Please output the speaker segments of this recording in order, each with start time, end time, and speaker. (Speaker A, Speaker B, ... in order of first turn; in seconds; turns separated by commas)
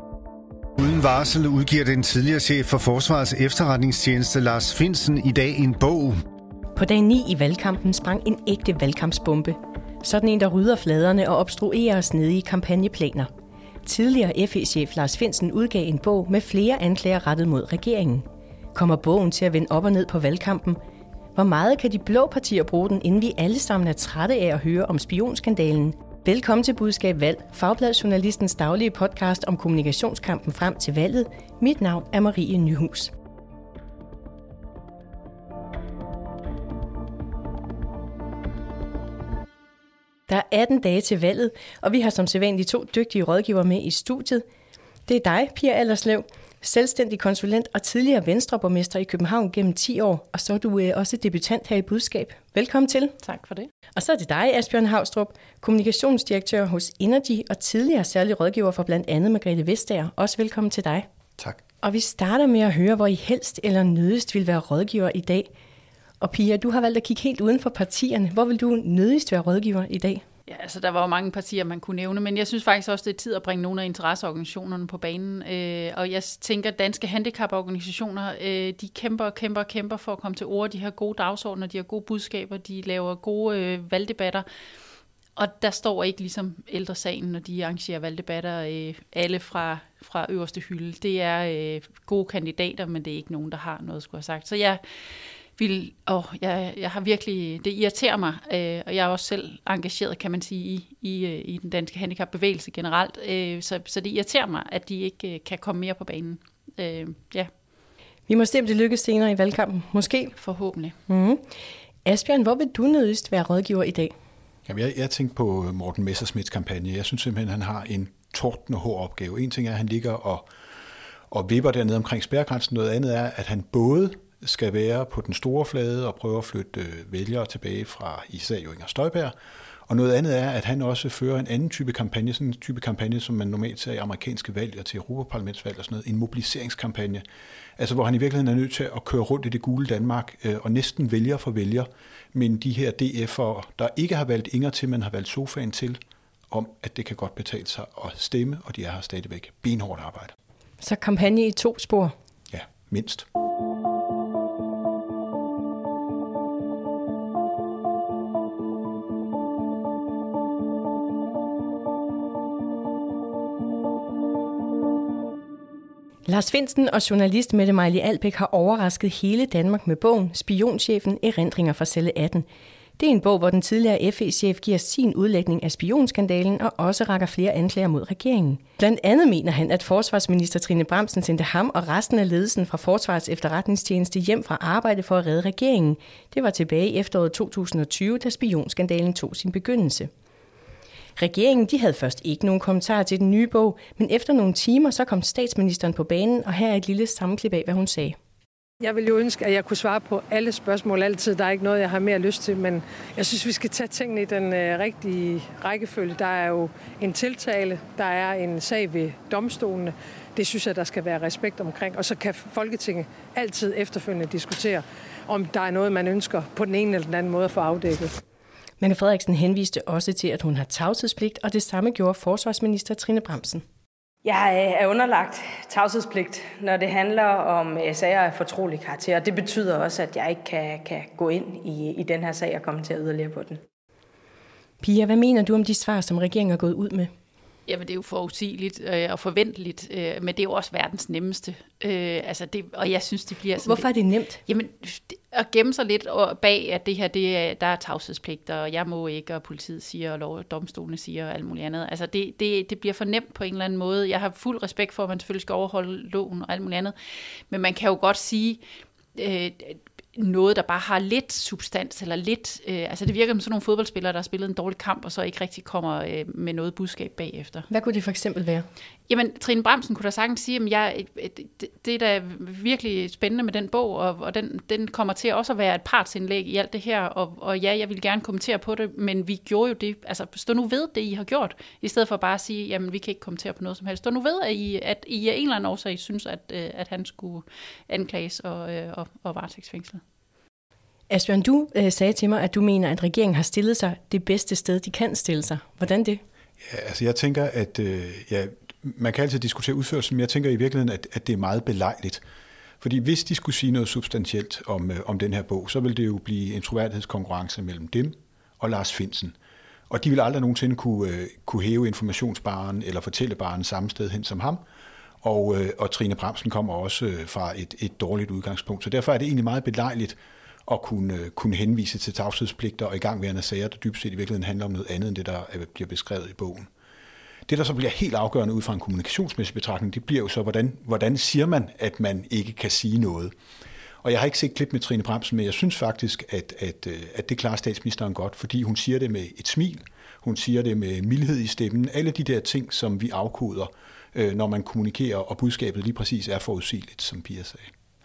Speaker A: 0.8-6.2, Speaker B: 6.8-13.3, Speaker B: 13.8-20.8, Speaker B: 21.4-33.1, Speaker B: 40.3-44.4, Speaker B: 45.1-53.2, Speaker C: 53.2-53.7, Speaker B: 54.0-61.1, Speaker B: 61.8-65.5, Speaker B: 66.2-70.2, Speaker C: 70.5-84.5, Speaker C: 85.4-94.8, Speaker C: 95.6-107.5, Speaker B: 108.3-110.3, Speaker C: 110.3-111.0, Speaker B: 111.1-111.4, Speaker B: 112.0-114.1, Speaker D: 114.7-120.5, Speaker D: 121.3-129.3, Speaker D: 129.9-137.2, Speaker D: 137.8-146.0, Speaker D: 146.5-150.3, Speaker B: 150.8-152.1, Speaker D: 152.5-153.3, Speaker B: 166.3-172.4, Speaker B: 173.0-190.1, Speaker B: 191.2-198.2, Speaker E: 198.8-218.1, Speaker B: 218.8-223.6, Speaker F: 224.3-233.6, Speaker B: 234.8-237.1, Speaker C: 237.7-243.9, Speaker B: 243.6-244.4, Speaker C: 244.5-256.9, Speaker C: 257.5-258.6, Speaker C: 259.1-267.7, Speaker B: 267.7-268.7, Speaker C: 269.1-290.0, Speaker B: 291.1-296.2, Speaker D: 296.6-302.2, Speaker D: 302.8-309.4, Speaker D: 309.9-314.6, Speaker D: 315.2-326.7, Speaker D: 327.5-333.3, Speaker D: 334.0-347.7